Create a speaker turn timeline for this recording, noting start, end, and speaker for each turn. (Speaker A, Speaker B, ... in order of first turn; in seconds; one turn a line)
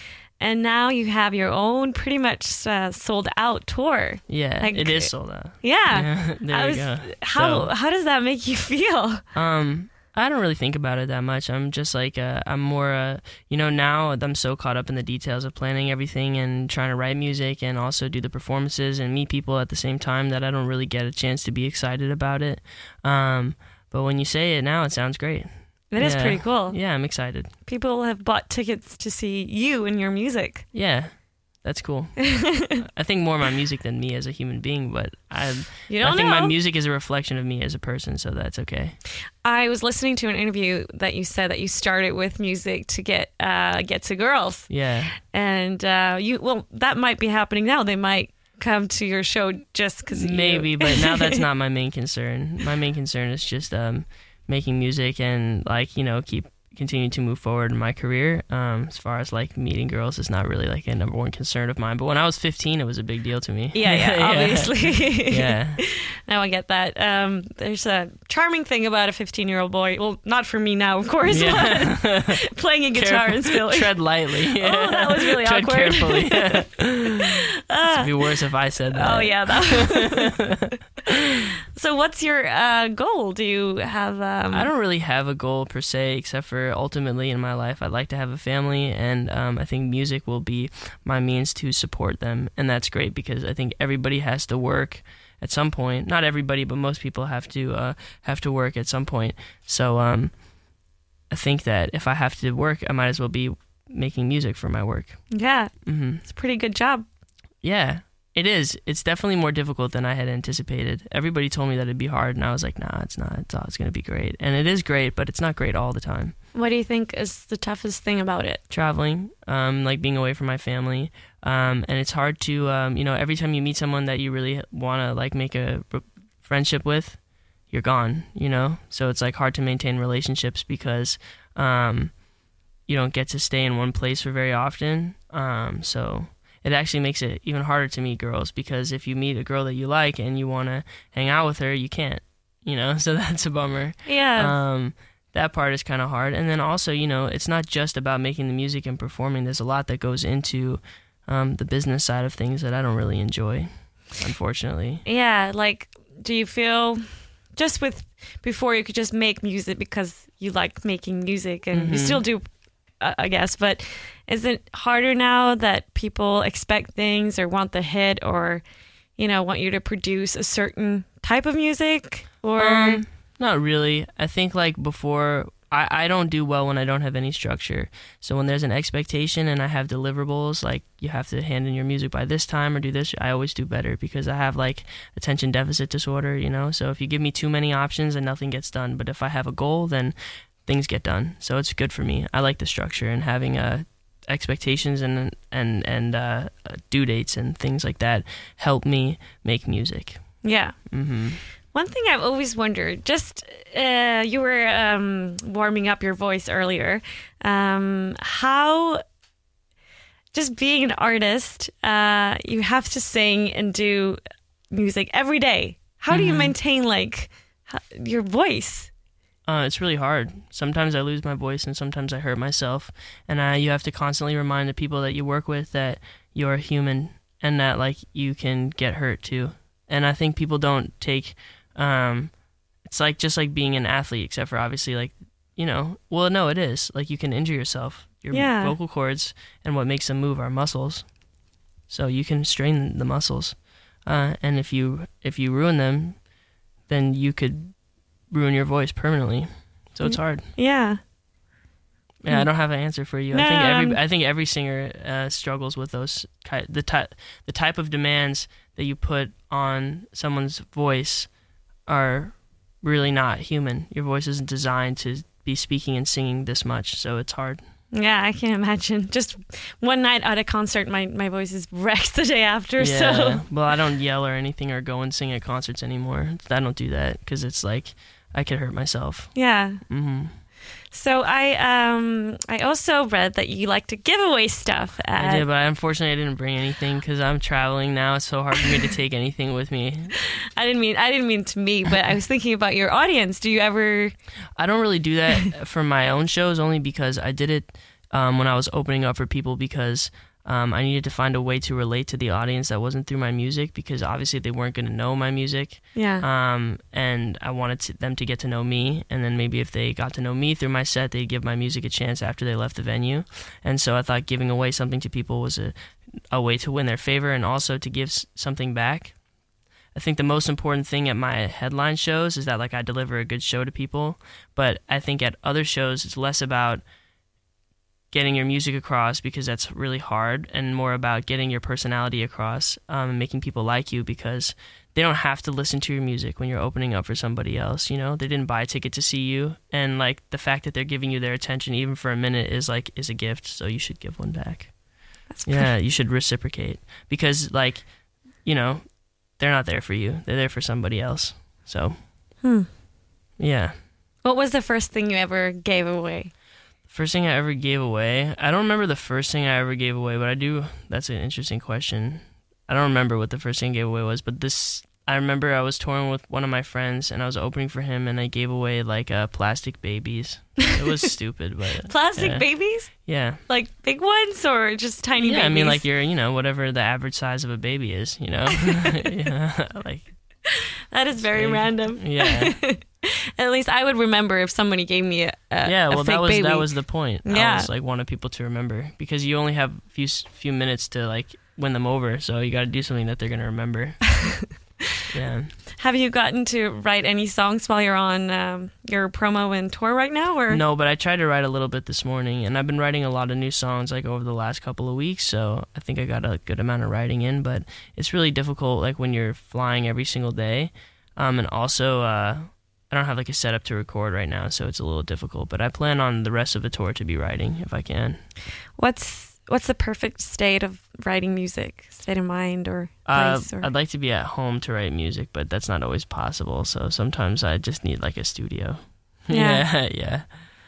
Speaker A: 0.4-9.2
Speaker B: 4.3-7.7
Speaker B: 9.3-27.5
Speaker A: 25.9-26.8
Speaker A: 27.6-30.6
Speaker B: 30.7-31.1
Speaker B: 31.6-39.0
Speaker A: 32.2-32.8
Speaker A: 35.9-36.5
Speaker A: 39.4-51.4
Speaker B: 44.7-45.1
Speaker B: 50.1-65.8
Speaker A: 63.7-78.3
Speaker B: 71.3-72.4
Speaker B: 72.9-80.7
Speaker A: 78.9-80.4
Speaker A: 81.1-84.7
Speaker B: 84.5-100.3
Speaker B: 101.3-105.2
Speaker A: 105.3-107.0
Speaker B: 105.8-106.2
Speaker B: 107.6-116.3
Speaker A: 116.5-118.6
Speaker B: 118.7-132.1
Speaker B: 132.9-155.0
Speaker A: 144.1-144.5
Speaker A: 155.0-162.4
Speaker B: 161.7-162.2
Speaker A: 163.0-168.6
Speaker A: 169.2-173.0
Speaker B: 172.6-200.2
Speaker A: 200.4-200.8
Speaker B: 200.9-201.4
Speaker A: 201.7-209.0
Speaker A: 210.3-214.2
Speaker A: 214.7-218.9
Speaker B: 216.1-216.5
Speaker B: 219.5-232.3
Speaker B: 232.8-241.1
Speaker A: 238.3-238.8
Speaker B: 241.9-246.2
Speaker B: 246.9-247.8
Speaker B: 248.3-250.5
Speaker A: 250.0-251.0
Speaker B: 252.2-261.3
Speaker A: 253.3-254.0
Speaker B: 261.9-267.6
Speaker A: 267.9-273.4
Speaker B: 272.8-279.3
Speaker A: 279.3-279.8
Speaker B: 279.9-280.3
Speaker A: 280.9-285.4
Speaker B: 285.1-290.1
Speaker A: 290.3-294.1
Speaker B: 294.6-315.7
Speaker A: 305.9-306.2
Speaker B: 316.3-319.1
Speaker B: 319.9-326.8
Speaker B: 328.1-344.7
Speaker A: 345.3-345.7
Speaker B: 345.4-347.9
Speaker B: 348.4-351.9
Speaker A: 352.4-352.7
Speaker B: 353.4-353.7
Speaker A: 354.2-356.3
Speaker B: 356.9-373.4
Speaker A: 371.9-372.9
Speaker A: 373.5-375.8
Speaker B: 375.1-380.1
Speaker A: 378.5-379.0
Speaker A: 380.5-387.7
Speaker B: 381.2-382.6
Speaker B: 385.6-394.1
Speaker B: 395.1-395.5
Speaker A: 395.8-400.6
Speaker B: 400.5-418.2
Speaker A: 418.8-423.7
Speaker B: 423.1-430.2
Speaker A: 429.3-429.6